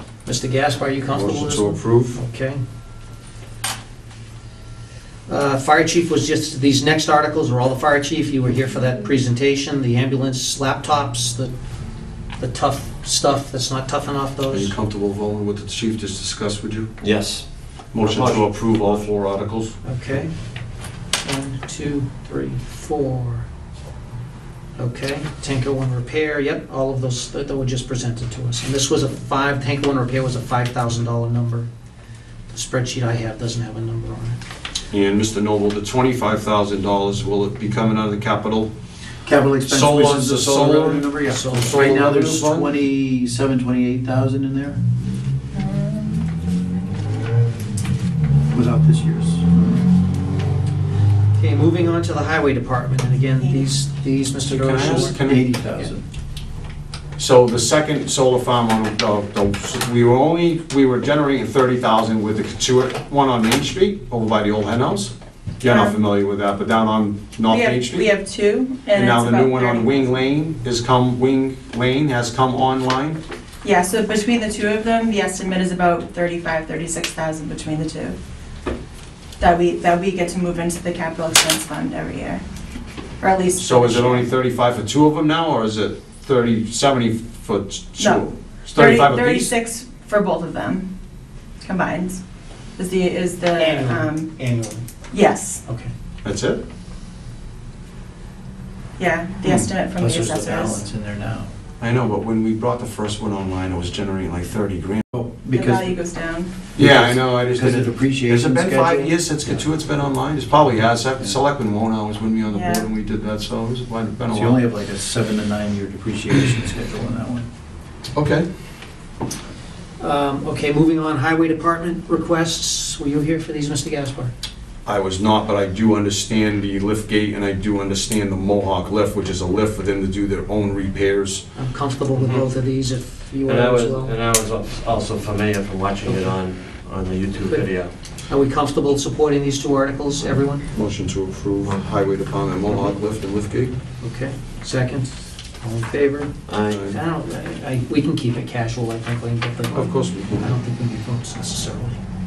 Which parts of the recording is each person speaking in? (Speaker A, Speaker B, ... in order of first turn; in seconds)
Speaker A: 0.3-2.6, 5.3-11.5, 12.4-14.8, 19.9-20.3, 21.2-23.5, 24.8-31.7, 32.5-34.4, 41.3-42.0, 51.4-55.2, 93.6-94.9, 95.7-95.9, 120.0-124.3, 131.6-134.2, 136.1-136.3, 138.3-140.7, 144.0-152.0
Speaker B: 1.1-2.2, 14.5-16.9, 17.9-19.8, 34.9-38.7, 39.7-42.7, 54.5-55.5, 57.2-68.1, 68.9-73.2, 83.6-89.5, 96.2-96.6, 101.8-105.0, 106.8-114.6, 118.1-118.5, 124.8-131.5, 140.7-143.8, 146.7-147.0, 149.7-150.5
Speaker C: 17.0-19.1, 132.1-132.5, 133.4-137.9, 146.5-146.9
Speaker D: 39.2-44.8, 48.5-49.5, 54.9-56.0, 100.0-101.5, 105.1-106.0, 106.8-109.6, 114.3-117.5
Speaker E: 45.5-46.3, 53.4-53.7, 65.6-66.0, 67.5-70.1, 73.6-78.2, 79.4-82.4, 83.2-84.3, 88.0-90.9, 91.6-92.2, 92.8-94.4, 95.1-95.6, 99.0-100.8, 105.5-106.5, 112.5-112.9